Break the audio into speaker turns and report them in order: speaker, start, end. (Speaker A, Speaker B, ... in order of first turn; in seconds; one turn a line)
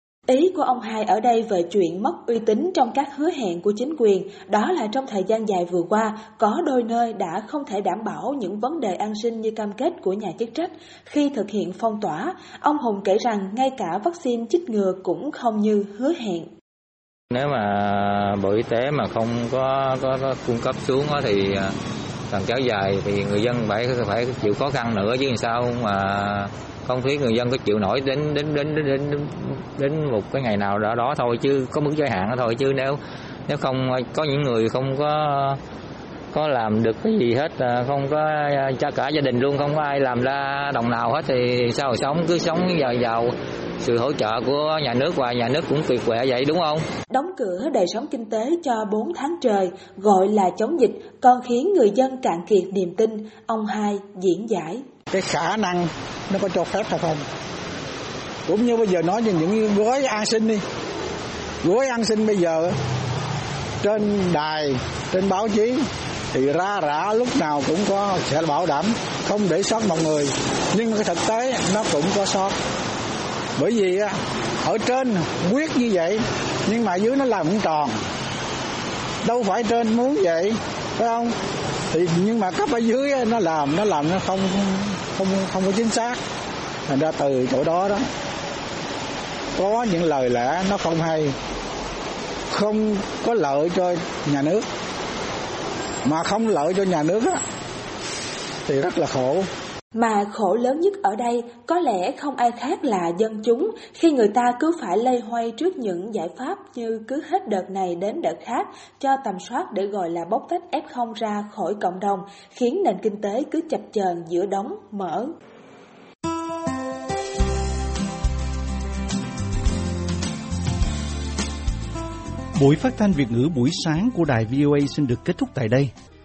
Speaker A: 0.3-16.5
Speaker B: 17.3-21.7
Speaker B: 22.3-35.6
Speaker B: 36.3-46.8
Speaker A: 47.1-54.8
Speaker C: 55.1-57.2
Speaker C: 58.5-60.6
Speaker C: 61.6-62.7
Speaker C: 63.8-65.8
Speaker C: 66.3-72.6
Speaker C: 73.6-78.0
Speaker C: 79.2-81.3
Speaker C: 81.9-86.2
Speaker C: 86.9-88.0
Speaker C: 89.5-91.3
Speaker C: 92.5-94.6
Speaker C: 96.0-97.4
Speaker C: 98.7-99.4
Speaker A: 99.9-115.3
Speaker D: 122.6-125.9